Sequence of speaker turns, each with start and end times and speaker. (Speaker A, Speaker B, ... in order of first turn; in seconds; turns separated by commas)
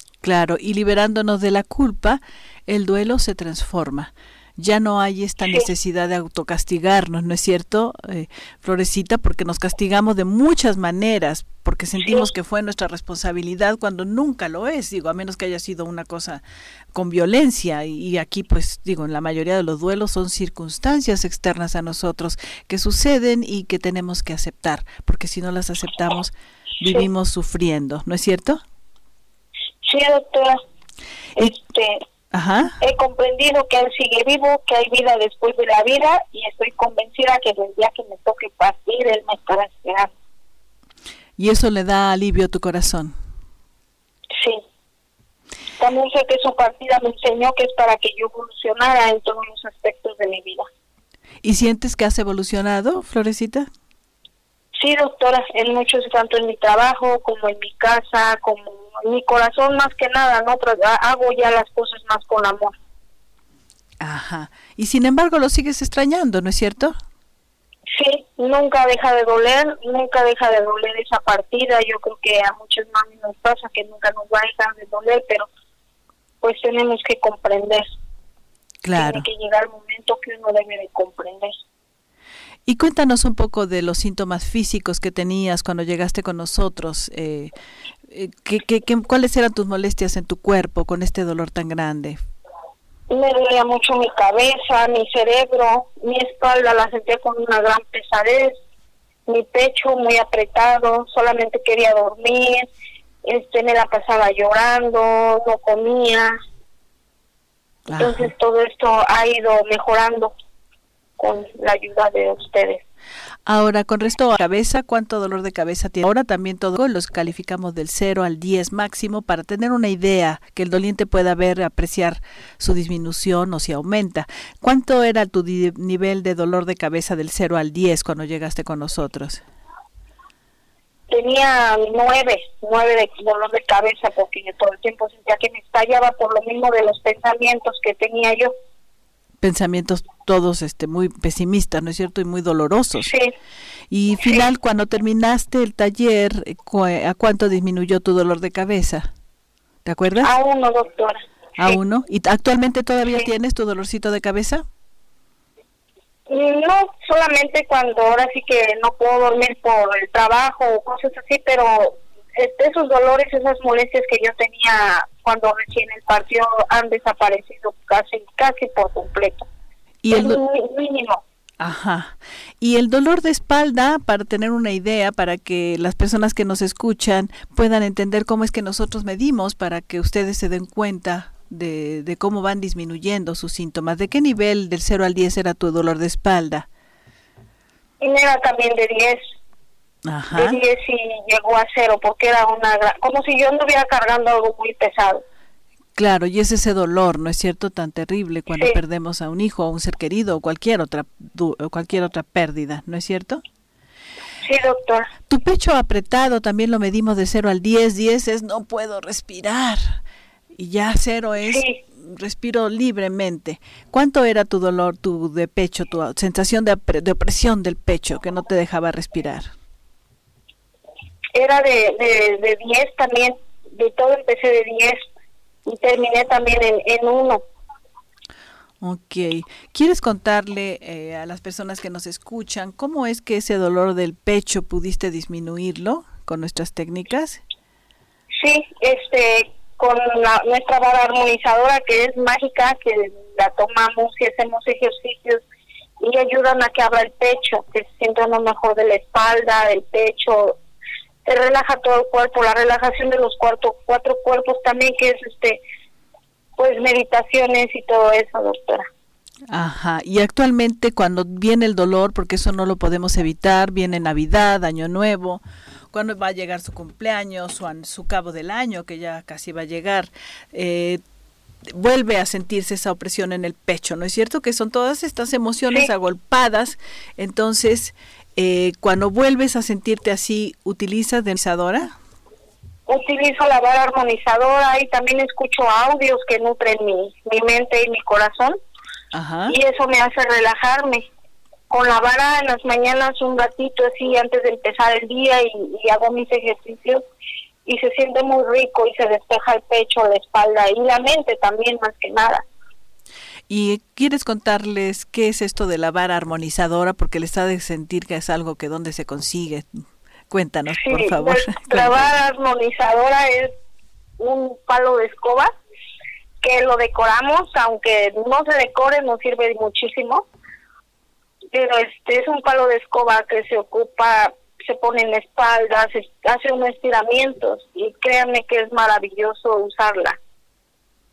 Speaker A: 0.2-16.4, Speaker A: 16.9-28.6, Speaker B: 29.8-30.6, Speaker B: 31.4-32.0, Speaker A: 32.3-32.8, Speaker B: 32.8-40.1, Speaker A: 41.4-43.1, Speaker B: 44.4-44.6, Speaker B: 45.8-50.7, Speaker A: 51.4-53.7, Speaker B: 54.8-62.7, Speaker A: 64.0-67.0, Speaker B: 67.9-75.5, Speaker B: 76.4-77.8, Speaker A: 78.8-79.3, Speaker B: 79.0-81.5, Speaker A: 82.7-87.5, Speaker A: 88.1-92.2, Speaker B: 93.1-98.5, Speaker B: 99.3-102.7, Speaker B: 103.2-106.4, Speaker A: 107.9-108.3, Speaker B: 108.0-110.3, Speaker B: 111.2-112.8, Speaker A: 113.5-129.4, Speaker B: 131.1-138.5, Speaker A: 139.4-143.1, Speaker B: 143.1-143.3, Speaker A: 143.9-149.1, Speaker A: 149.8-150.3, Speaker B: 150.2-151.8, Speaker A: 151.6-154.7, Speaker B: 156.3-169.5, Speaker A: 170.0-170.4, Speaker B: 170.1-171.2, Speaker A: 171.6-186.7, Speaker B: 188.0-189.2, Speaker A: 190.1-190.6, Speaker B: 190.4-195.2, Speaker A: 196.0-203.4, Speaker B: 204.4-205.1, Speaker A: 205.3-210.0, Speaker A: 210.5-219.5, Speaker B: 211.5-211.8, Speaker B: 221.3-225.0, Speaker B: 225.7-227.4, Speaker A: 228.8-237.4, Speaker B: 238.4-245.4, Speaker B: 246.0-250.6, Speaker B: 251.2-255.6, Speaker B: 256.6-258.9, Speaker A: 259.5-271.0, Speaker A: 271.7-281.9, Speaker B: 282.9-288.6, Speaker A: 289.1-289.6, Speaker B: 289.5-291.1, Speaker B: 291.7-297.0, Speaker B: 297.7-302.4, Speaker A: 303.5-309.7, Speaker A: 310.3-312.1, Speaker B: 310.7-313.5, Speaker B: 314.2-315.5, Speaker B: 316.4-320.2, Speaker B: 321.5-330.2